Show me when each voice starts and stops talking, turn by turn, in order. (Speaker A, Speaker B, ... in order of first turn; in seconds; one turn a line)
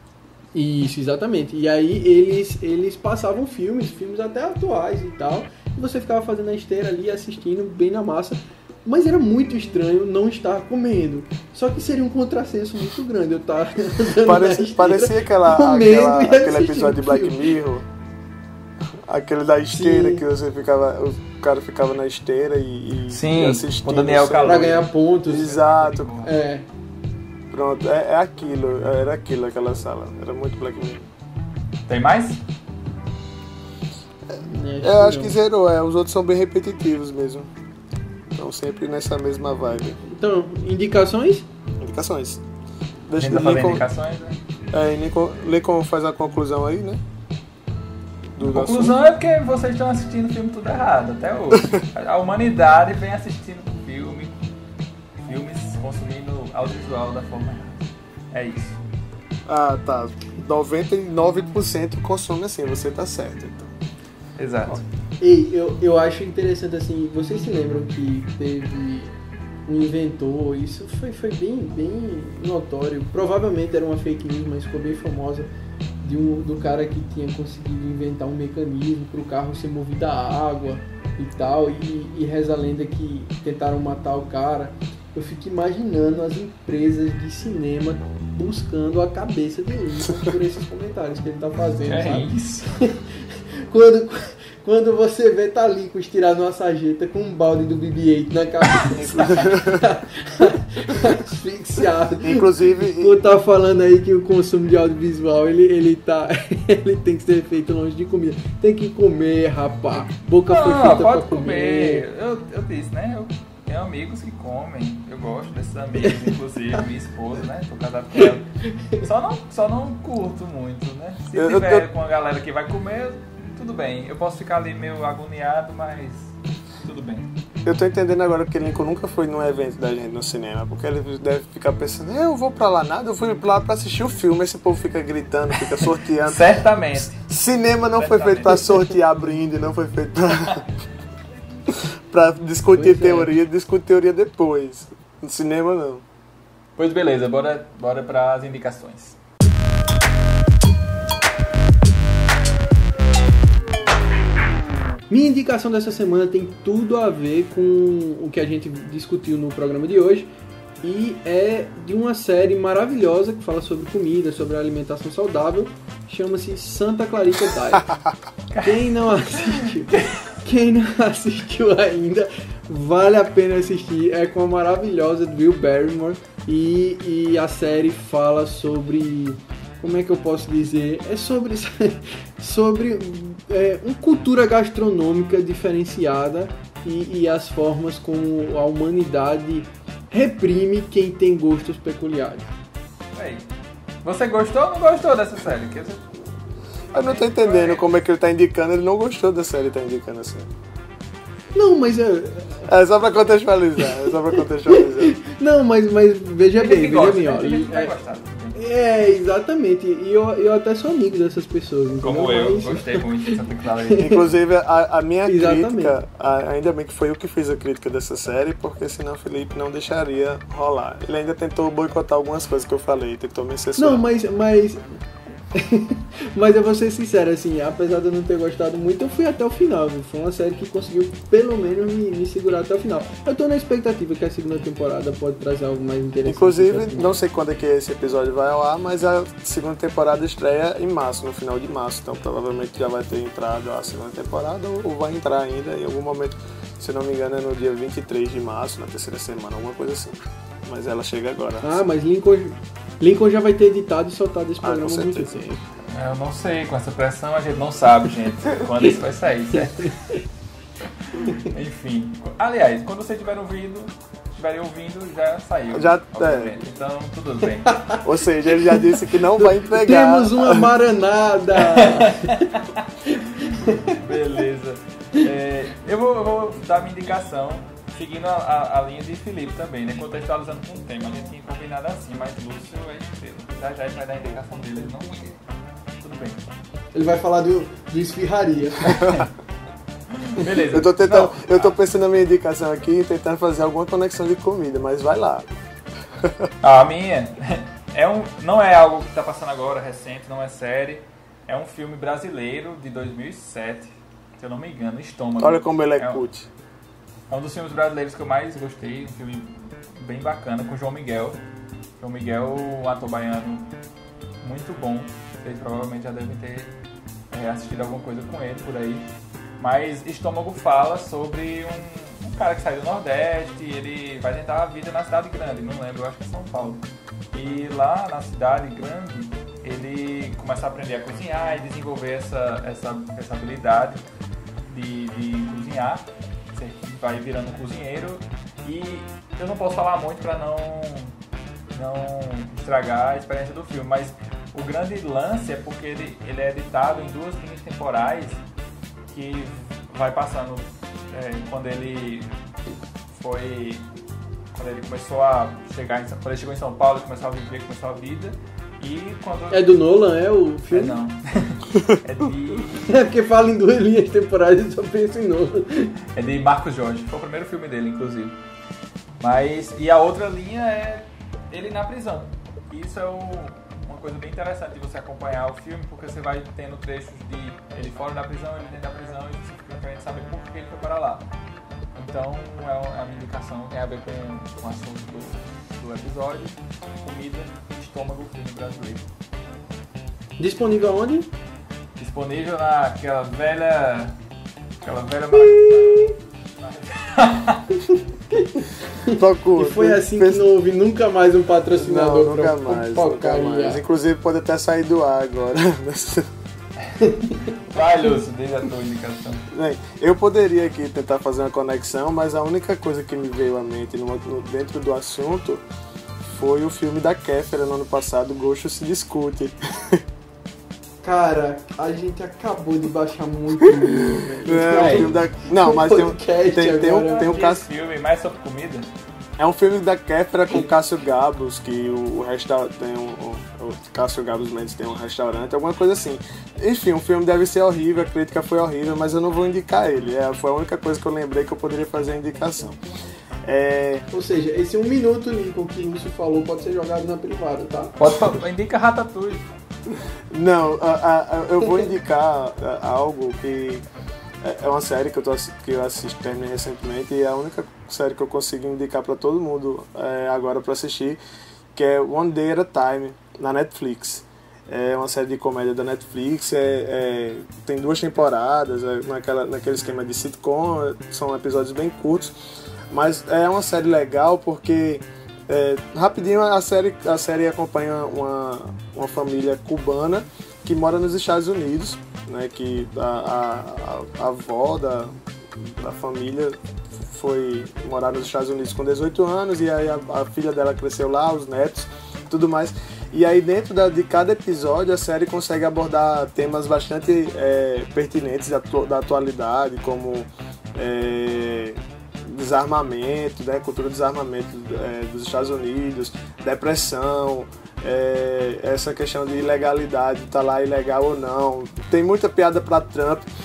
Speaker A: 0.5-17.5
Speaker B: 14.2-17.9
Speaker B: 18.9-26.1
Speaker A: 19.7-20.2
Speaker C: 23.1-26.4
Speaker A: 24.4-25.6
Speaker A: 26.2-26.7
Speaker B: 27.5-31.1
Speaker C: 31.9-32.4
Speaker B: 34.3-37.5
Speaker A: 34.4-35.4
Speaker B: 38.3-40.0
Speaker A: 40.1-41.5
Speaker B: 41.8-42.4
Speaker B: 43.1-43.8
Speaker C: 43.2-44.4
Speaker B: 44.7-47.0
Speaker B: 48.4-49.0
Speaker C: 48.4-54.4
Speaker C: 55.2-58.8
Speaker B: 59.5-63.7
Speaker C: 64.4-64.8
Speaker A: 65.2-69.1
Speaker A: 69.7-75.5
Speaker A: 76.0-112.0
Speaker C: 91.8-92.8
Speaker B: 99.0-99.9
Speaker B: 102.2-103.2
Speaker C: 110.5-127.3
Speaker B: 121.3-121.9
Speaker B: 127.7-136.4
Speaker C: 135.6-137.3
Speaker B: 137.1-140.7
Speaker C: 137.9-138.7
Speaker C: 140.3-140.6
Speaker B: 141.7-146.0
Speaker A: 142.7-143.3
Speaker C: 146.8-149.2
Speaker A: 155.1-160.3
Speaker A: 160.8-167.9
Speaker C: 168.5-170.2
Speaker A: 168.6-192.5
Speaker C: 193.1-193.5
Speaker C: 194.0-196.0
Speaker C: 196.9-197.9
Speaker B: 196.9-200.5
Speaker A: 201.5-202.7
Speaker B: 202.7-205.2
Speaker A: 203.8-207.9
Speaker C: 206.5-208.6
Speaker A: 208.6-213.4
Speaker C: 212.0-214.1
Speaker A: 213.9-214.3
Speaker B: 214.0-224.0
Speaker A: 215.3-216.0
Speaker A: 223.8-224.9
Speaker A: 225.5-237.1
Speaker B: 236.2-251.8
Speaker A: 251.6-255.6
Speaker B: 254.6-255.4
Speaker C: 255.9-260.2
Speaker C: 261.1-267.8
Speaker B: 265.7-266.6
Speaker A: 267.7-268.0
Speaker B: 268.0-270.7
Speaker A: 268.7-272.5
Speaker C: 271.6-285.4
Speaker A: 273.4-274.0
Speaker C: 286.0-286.5
Speaker A: 286.9-289.3
Speaker C: 290.1-291.8
Speaker B: 290.7-295.5
Speaker B: 296.2-296.5
Speaker C: 296.6-306.2
Speaker B: 305.4-306.5
Speaker C: 307.3-311.4
Speaker C: 312.0-313.7
Speaker C: 314.4-316.7
Speaker C: 317.3-334.0
Speaker C: 334.7-341.2
Speaker C: 341.7-348.4
Speaker C: 349.1-352.3
Speaker C: 353.1-353.9
Speaker C: 354.5-359.6
Speaker A: 359.5-361.0
Speaker C: 360.7-363.0
Speaker A: 362.9-365.9
Speaker C: 366.1-368.4
Speaker C: 369.2-381.3
Speaker C: 381.9-389.1
Speaker A: 390.4-391.3
Speaker C: 392.0-394.2
Speaker C: 394.8-397.8
Speaker A: 395.4-396.1
Speaker A: 398.3-403.8
Speaker B: 399.1-400.4
Speaker B: 401.7-406.3
Speaker C: 406.8-409.5
Speaker A: 407.1-407.4
Speaker B: 409.5-415.6
Speaker B: 416.2-420.0
Speaker A: 421.0-427.3
Speaker B: 423.6-427.7
Speaker C: 424.7-425.1
Speaker C: 427.2-428.9
Speaker B: 429.4-442.8
Speaker B: 443.4-444.1
Speaker A: 444.1-448.0
Speaker C: 448.0-449.5
Speaker B: 450.3-453.9
Speaker B: 454.4-461.2
Speaker B: 461.8-472.4
Speaker B: 472.9-513.3